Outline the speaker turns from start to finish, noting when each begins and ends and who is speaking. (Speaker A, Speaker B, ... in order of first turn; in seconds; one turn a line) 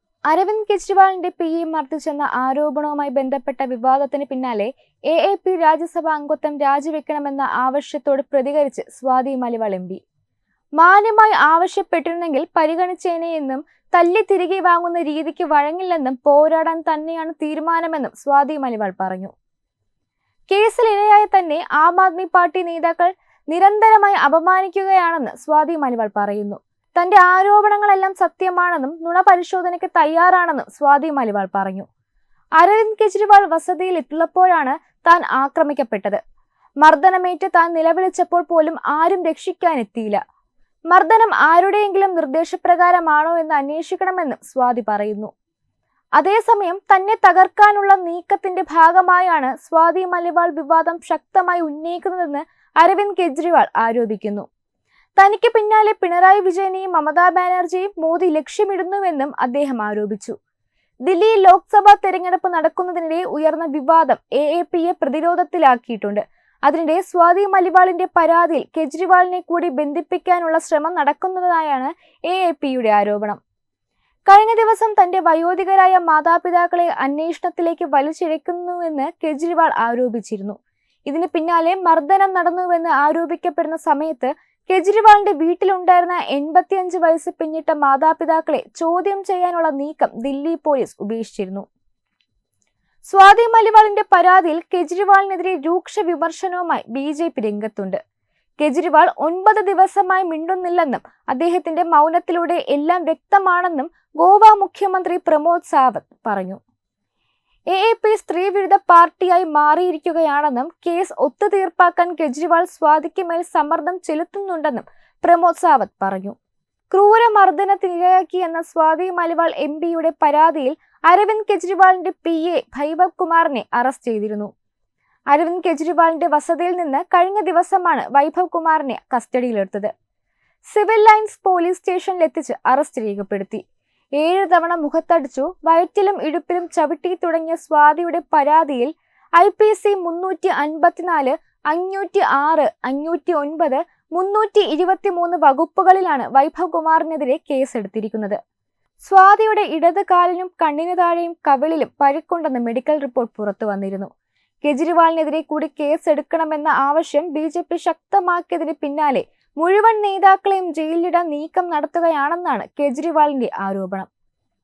Speaker A: 0.3-10.0
Speaker A: 10.8-19.3
Speaker A: 20.5-31.9
Speaker A: 32.6-36.2
Speaker A: 36.8-40.2
Speaker A: 40.9-45.3
Speaker A: 46.2-54.5
Speaker A: 55.2-60.3
Speaker A: 61.0-73.4
Speaker A: 74.3-91.6
Speaker A: 93.1-98.0
Speaker A: 98.6-106.6
Speaker A: 107.7-116.3
Speaker A: 116.9-124.5
Speaker A: 125.3-129.9
Speaker A: 130.7-133.6
Speaker A: 134.2-148.4
Speaker A: 149.0-154.1
Speaker A: 154.6-164.1